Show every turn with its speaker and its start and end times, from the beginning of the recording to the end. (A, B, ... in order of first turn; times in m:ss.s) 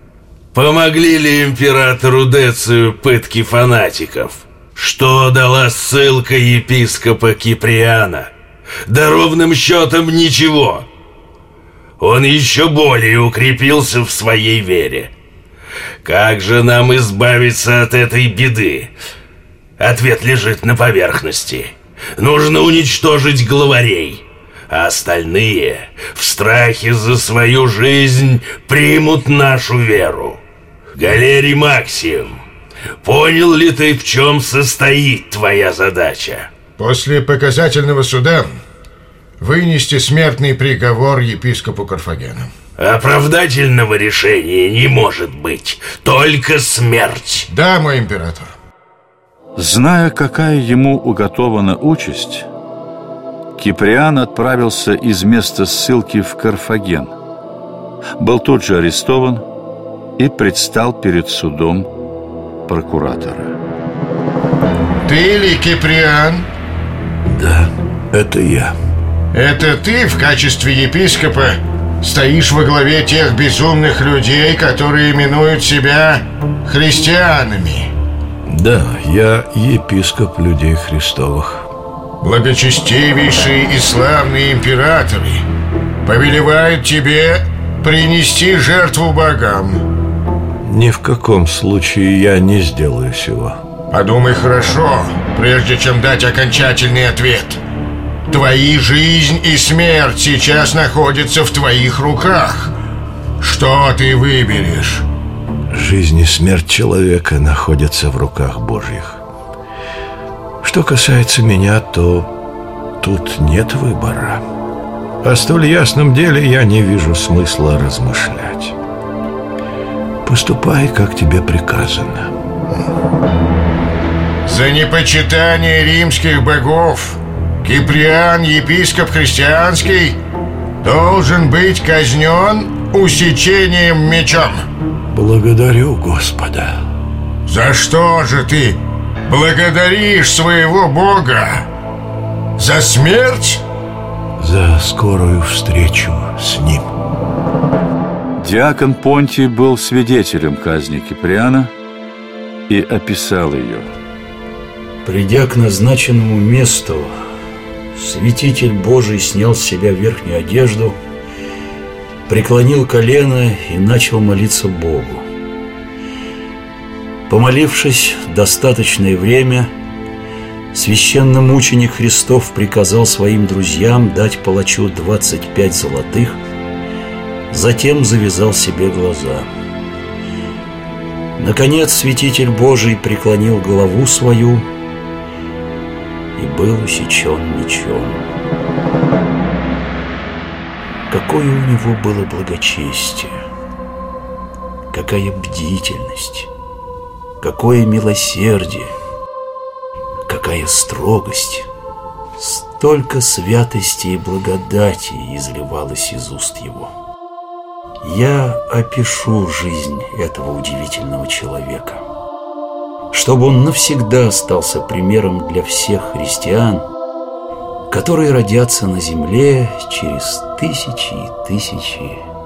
0:00.5-0:08.3 A
0:08.8-0:10.9 A
0:12.0-0:15.1 A
0:16.0-0:18.9 A
0:19.8-0:30.4 A
0:31.0-0:32.4 A
0:33.0-0:36.5 A
0:36.8-0:38.6 B
0:39.4-0:42.5 B
0:42.8-0:47.5 A
0:47.5-0:48.5 B
0:49.6-0:52.5 C
0:53.6-0:57.2 C
0:58.2-0:59.4 C
1:00.2-1:01.9 C
1:02.7-1:03.6 C
1:05.0-1:06.5 B
1:07.3-1:08.7 D
1:09.3-1:17.9 B
1:18.5-1:21.7 D
1:22.2-1:25.4 B
1:26.0-1:29.8 B
1:30.6-1:33.6 D
1:33.9-1:37.6 B
1:38.3-1:42.7 B
1:43.4-1:45.0 B
1:45.7-1:49.2 D
1:50.6-1:52.3 D
1:53.0-1:54.4 D
1:55.2-1:58.8 D
2:00.2-2:02.3 D
2:04.4-2:10.2 B
2:10.8-2:14.6 B
2:15.1-2:16.8 D
2:17.4-2:21.7 B
2:22.6-2:23.6 B
2:24.4-2:26.9 D
2:28.4-2:31.7 C
2:32.7-2:33.9 C
2:35.0-2:37.2 E
2:37.9-2:41.0 E
2:42.3-2:45.2 E
2:47.3-2:49.7 E
2:50.7-2:56.4 E
2:57.5-2:59.5 E
3:01.4-3:04.7 E
3:06.4-3:08.2 E
3:11.1-3:13.4 E
3:14.9-3:16.5 E
3:17.4-3:18.9 E
3:20.2-3:21.7 E
3:22.4-3:26.9 E
3:28.0-3:32.0 E
3:33.1-3:36.9 E
3:37.9-3:42.2 E